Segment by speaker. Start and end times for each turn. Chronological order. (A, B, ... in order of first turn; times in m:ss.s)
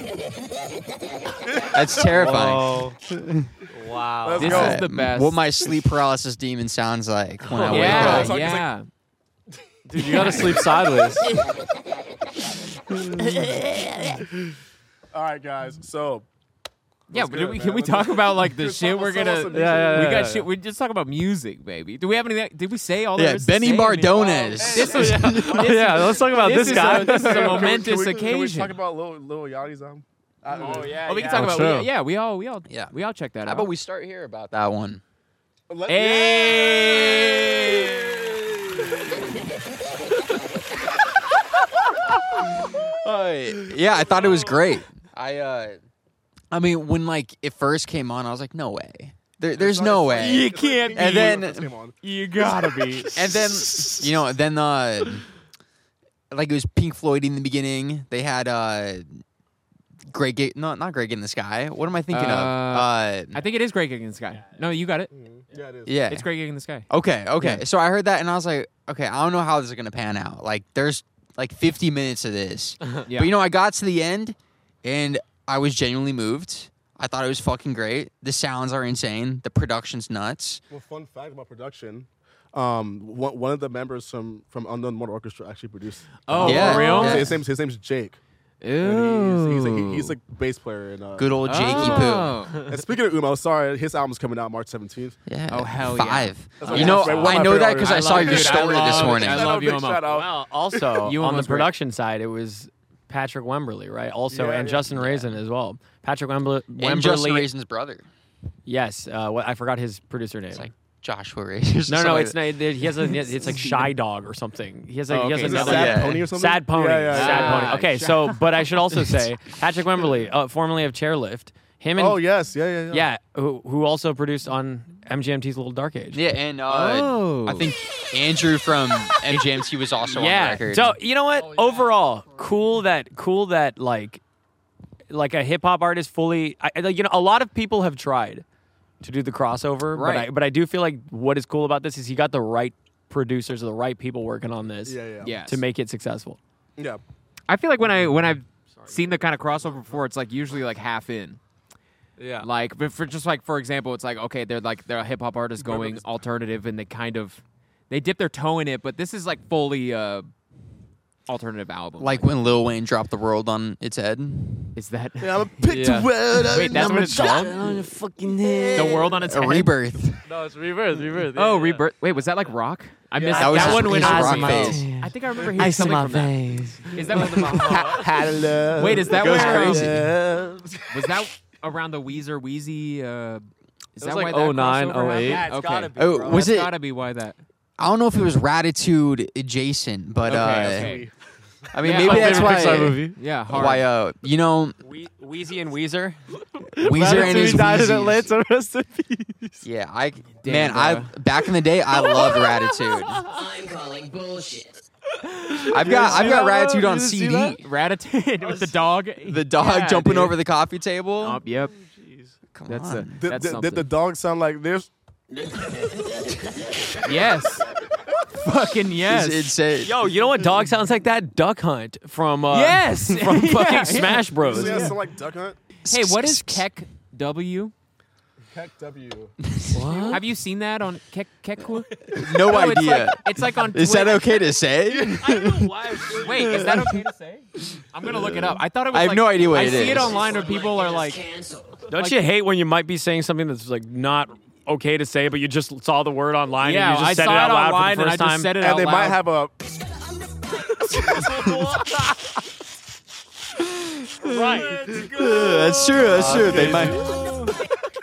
0:01.7-0:03.5 A
0:02.0-0:03.0 B
0:03.7-0:04.6 B
0:04.2-0:04.8 C
0:04.4-0:05.4 D
0:04.4-0:08.4 A
0:07.4-0:08.2 B
0:07.6-0:08.7 C
0:07.7-0:08.9 D
0:09.9-0:11.2 B
0:10.1-0:10.4 A
0:11.2-0:11.5 E
0:13.4-0:14.2 E
0:15.1-0:16.2 C
0:17.1-0:20.3 C
0:17.1-0:28.8 D
0:19.5-0:20.5 B
0:23.1-0:25.8 A
0:24.1-0:31.3 C
0:24.4-0:27.9 B
0:30.6-0:31.6 F
0:30.7-0:33.7 D
0:31.3-0:31.9 B
0:33.4-0:35.0 A
0:35.7-0:39.2 C
0:35.9-0:38.1 D
0:42.7-0:45.8 A
0:46.5-0:51.7 A
0:49.5-0:53.1 C
0:50.1-0:51.5 D
0:52.0-0:54.0 D
0:53.1-0:55.2 A
0:56.3-0:59.2 A
1:00.1-1:03.4 A
1:02.1-1:05.1 D
1:05.1-1:06.0 C
1:05.9-1:06.3 A
1:06.1-1:07.6 D
1:06.9-1:20.6 A
1:13.1-1:13.4 D
1:20.7-1:28.2 C
1:26.3-1:27.4 D
1:26.4-1:27.4 A
1:28.6-1:30.1 D
1:28.8-1:35.2 C
1:31.2-1:32.4 A
1:31.4-1:32.7 D
1:35.3-1:39.6 A
1:35.5-1:40.1 D
1:36.6-1:41.0 C
1:40.1-1:47.5 F
1:41.0-1:41.7 D
1:44.3-1:45.0 C
1:45.0-1:45.3 A
1:46.8-1:48.1 A
1:48.7-1:50.7 F
1:50.5-1:52.5 A
1:51.9-2:02.2 F
1:55.1-1:56.1 D
1:55.4-1:57.8 C
1:55.5-1:56.2 A
1:57.1-1:58.4 D
2:02.0-2:03.1 C
2:02.9-2:06.2 F
2:06.1-2:11.0 A
2:06.7-2:07.7 D
2:10.1-2:14.2 F
2:11.4-2:12.0 B
2:15.1-2:18.4 F
2:19.0-2:26.4 F
2:19.9-2:20.3 D
2:24.9-2:25.4 C
2:25.2-2:25.6 D
2:26.8-2:27.0 C
2:27.5-2:31.4 D
2:32.2-2:32.5 B
2:32.4-2:40.3 D
2:35.6-2:36.1 C
2:41.3-2:42.3 D
2:42.0-2:44.8 A
2:44.8-2:47.6 D
2:45.2-2:47.7 C
2:45.7-2:49.2 B
2:48.7-2:49.7 D
2:49.2-2:50.2 A
2:50.2-2:51.8 B
2:51.4-2:58.1 D
2:53.2-2:53.9 C
2:53.2-2:58.6 B
2:53.3-2:54.9 A
2:55.4-2:55.7 C
2:57.1-3:01.2 C
2:58.8-3:00.0 D
2:59.1-3:00.1 A
3:00.9-3:03.5 D
3:04.0-3:07.4 D
3:04.0-3:05.5 B
3:05.0-3:06.5 F
3:05.9-3:06.7 A
3:07.8-3:11.0 A
3:10.2-3:11.1 D
3:10.3-3:11.1 C
3:11.7-3:14.8 A
3:11.8-3:13.9 D
3:11.9-3:13.2 B
3:14.8-3:16.2 F
3:16.8-3:19.6 B
3:16.8-3:18.3 A
3:19.6-3:23.2 A
3:20.4-3:21.1 D
3:23.2-3:24.8 E
3:25.5-3:27.6 B
3:25.5-3:26.4 D
3:25.7-3:27.6 A
3:27.6-3:30.4 D
3:29.2-3:31.4 A
3:31.2-3:31.7 D
3:31.7-3:32.3 B
3:32.5-3:33.1 A
3:32.7-3:33.9 D
3:33.2-3:34.9 C
3:37.0-3:37.7 D
3:38.4-3:39.5 D
3:39.1-3:39.9 A
3:39.8-3:44.9 F
3:42.5-3:45.0 D
3:44.4-3:45.6 C
3:45.8-3:46.6 A
3:45.9-3:47.7 D
3:48.5-3:49.3 C
3:49.4-3:50.1 A
3:49.7-3:50.2 B
3:50.1-3:54.5 D
3:52.1-3:56.9 A
3:55.0-3:56.2 F
3:56.1-4:01.2 D
3:58.1-4:00.2 A
3:59.5-4:01.8 E
4:01.9-4:08.5 F
4:06.6-4:09.2 D
4:08.6-4:09.6 C
4:10.8-4:11.8 C
4:13.6-4:17.1 A
4:14.2-4:14.9 F
4:15.2-4:17.5 D
4:16.0-4:17.2 B